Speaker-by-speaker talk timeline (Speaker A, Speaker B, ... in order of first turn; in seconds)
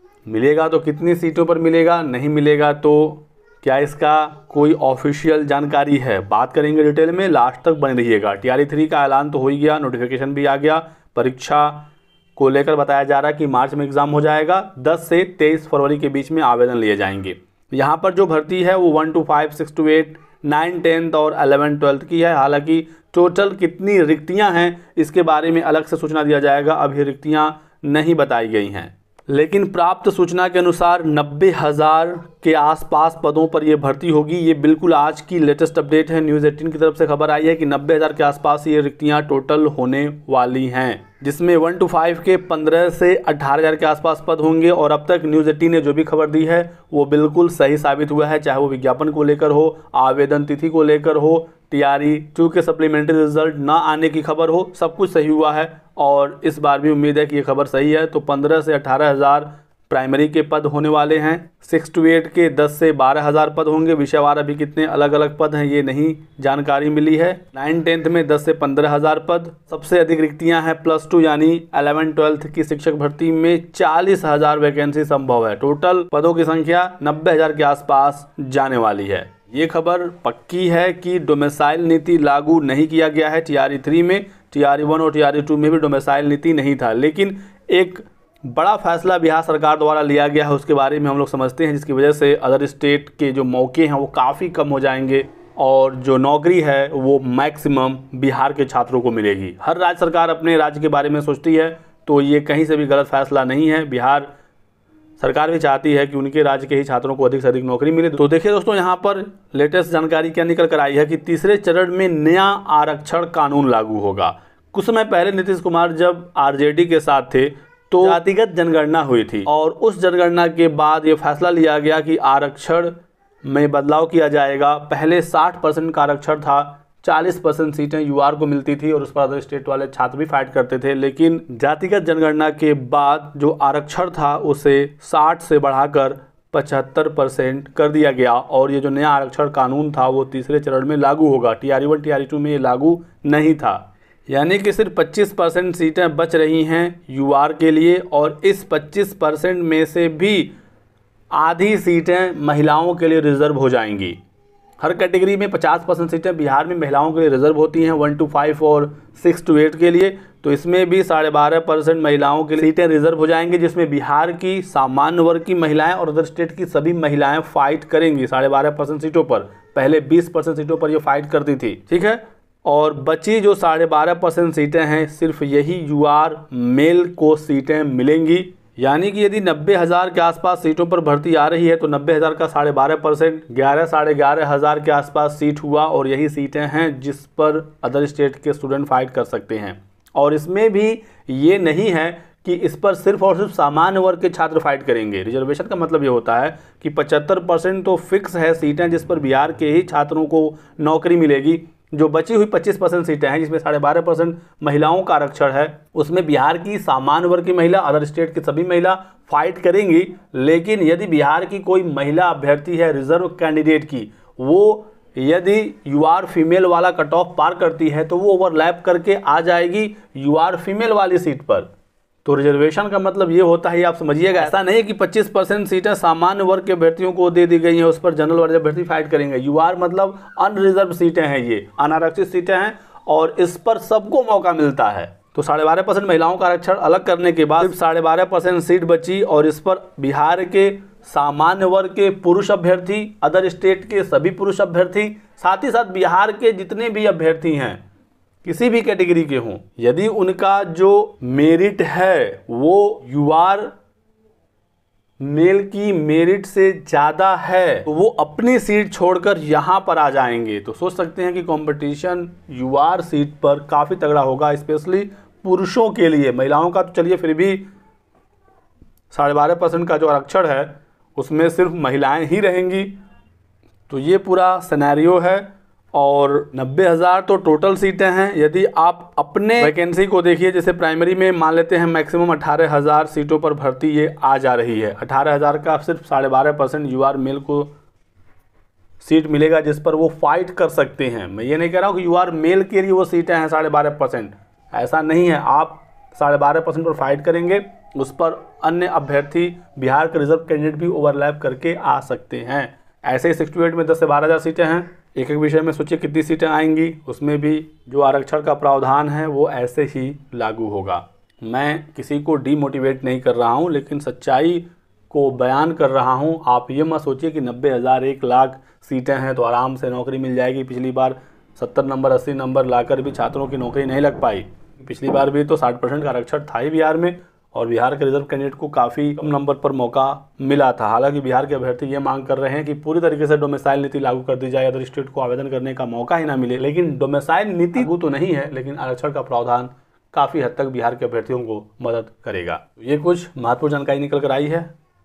Speaker A: 0.3-104.3, 105.2-150.5, 151.3-154.2, 154.8-221.7, 222.2-247.8, 248.4-253.7, 255.2-267.6, 269.1-272.9, 273.9-287.7, 289.0-344.7